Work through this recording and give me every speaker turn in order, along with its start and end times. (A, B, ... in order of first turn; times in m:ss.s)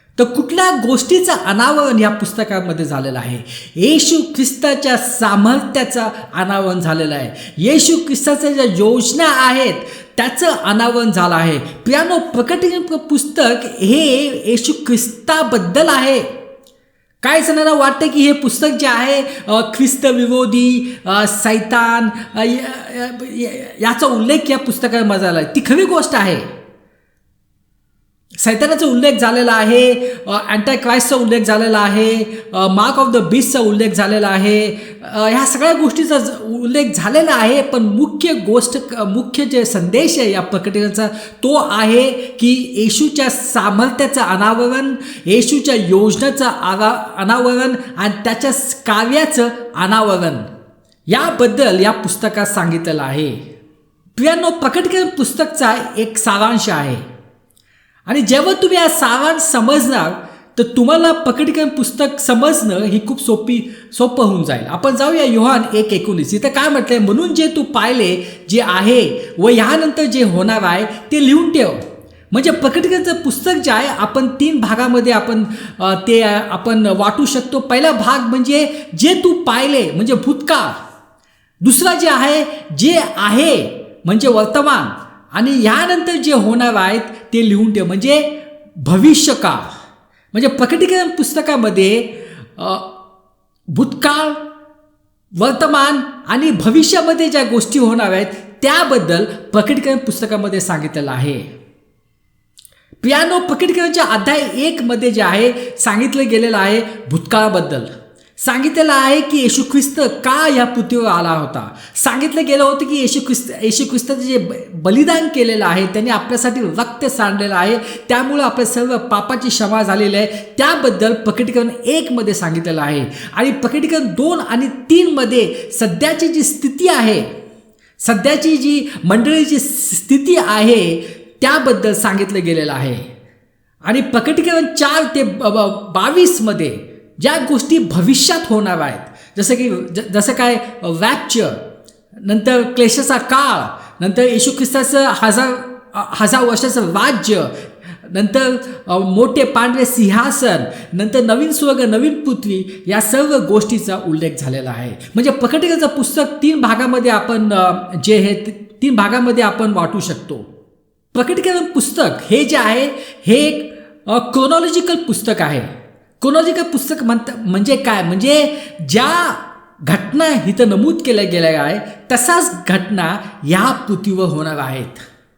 0:00.2-0:16.2 A
0:17.2-0:26.5 A
0:28.4-0:50.5 A
0:51.1-0:53.4 A
0:54.2-0:57.1 A
0:58.1-1:20.7 A
1:21.6-1:29.7 A
1:30.3-1:32.9 A
1:33.7-1:34.4 A
1:35.4-1:41.5 A
1:43.0-2:07.2 A
2:08.0-2:13.1 A
2:13.8-2:21.6 A
2:22.2-2:40.5 A
2:41.1-2:55.0 A